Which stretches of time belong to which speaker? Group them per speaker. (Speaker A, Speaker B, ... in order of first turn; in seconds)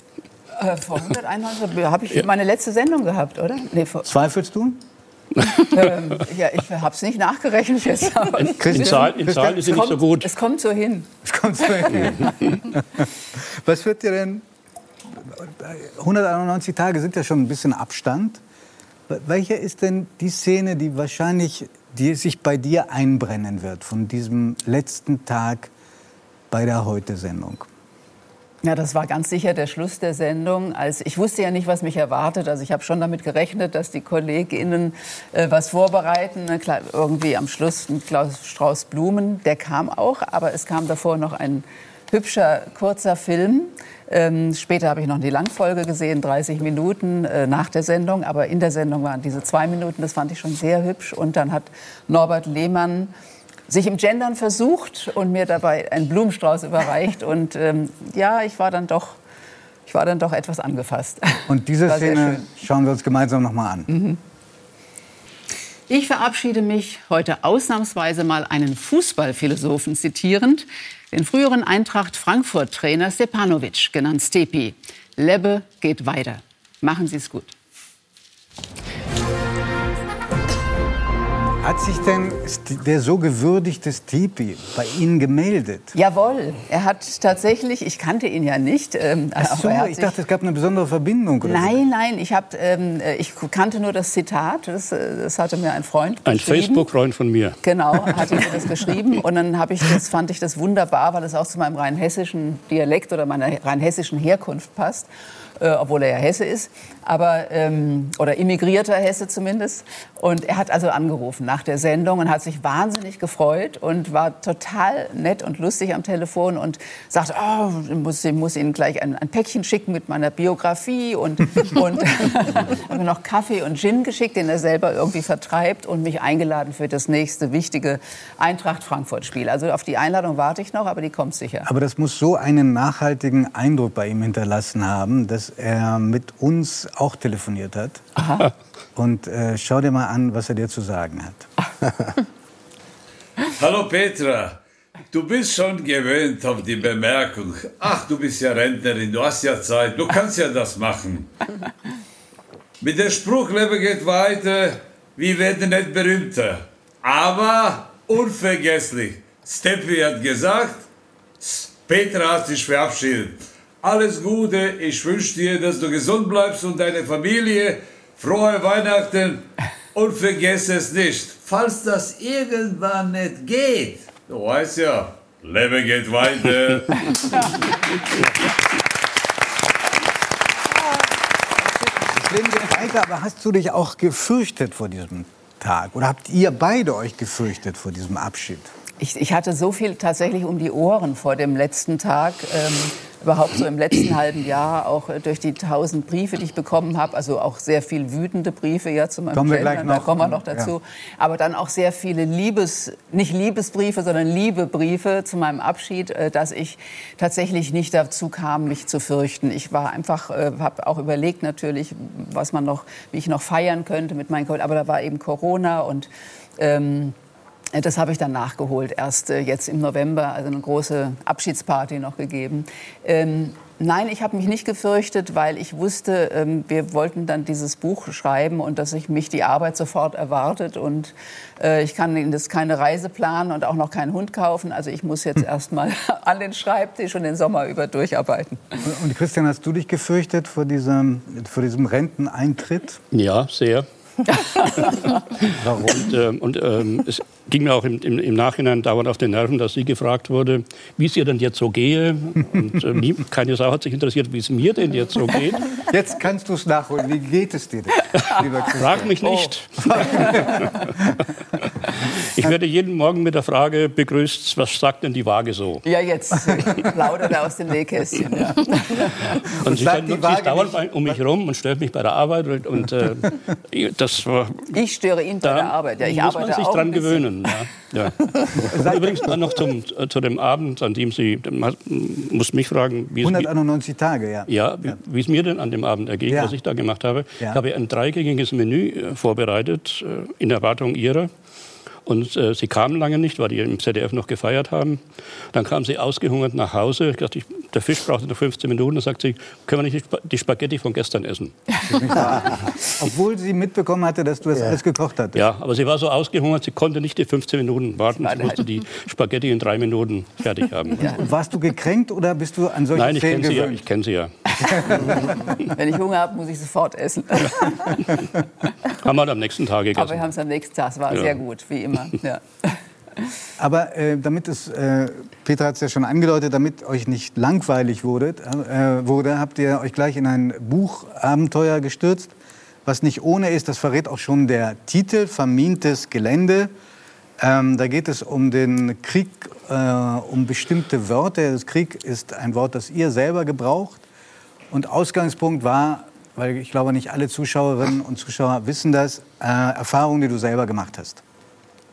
Speaker A: 0.6-4.1, 5.5-9.1, 9.7-11.1, 11.7-12.3, 28.6-53.1, 53.7-59.2, 59.9-62.5, 63.9-64.2, 65.9-77.5, 85.9-90.2, 91.4-96.9, 97.6-105.1, 105.6-131.7, 138.2-138.5, 189.0-217.2, 217.7-238.9, 244.3-245.1, 265.8-269.1, 274.7-277.3, 308.2-308.6, 314.9-318.3, 319.9-323.3
Speaker B: 4.0-4.8, 8.6-9.9, 11.2-13.1, 13.6-14.4, 15.2-18.4, 19.1-25.7, 26.5-27.7, 61.5-63.9, 81.6-85.9, 89.4-91.8, 131.7-138.0, 138.9-141.5, 182.1-188.7, 199.3-200.8, 238.8-243.0, 245.6-246.1, 255.7-261.2, 269.6-271.2, 278.6-279.3, 283.2-284.9, 286.3-286.6, 301.9-305.4, 311.1-313.8, 314.6-315.3, 323.6-332.4, 332.9-336.7, 337.4-344.0, 344.7-351.2
Speaker C: 5.5-5.8, 8.4-10.3, 96.2-97.6, 243.1-243.9, 244.8-255.7, 258.7-260.9, 261.9-265.8, 269.3-274.8, 275.4-283.5, 284.5-291.3, 292.1-295.0, 295.5-301.6, 305.3-311.1, 312.9-314.3, 318.9-320.3, 321.1-321.4
Speaker D: 143.6-144.6, 145.1-151.3, 152.8-160.9, 161.4-177.8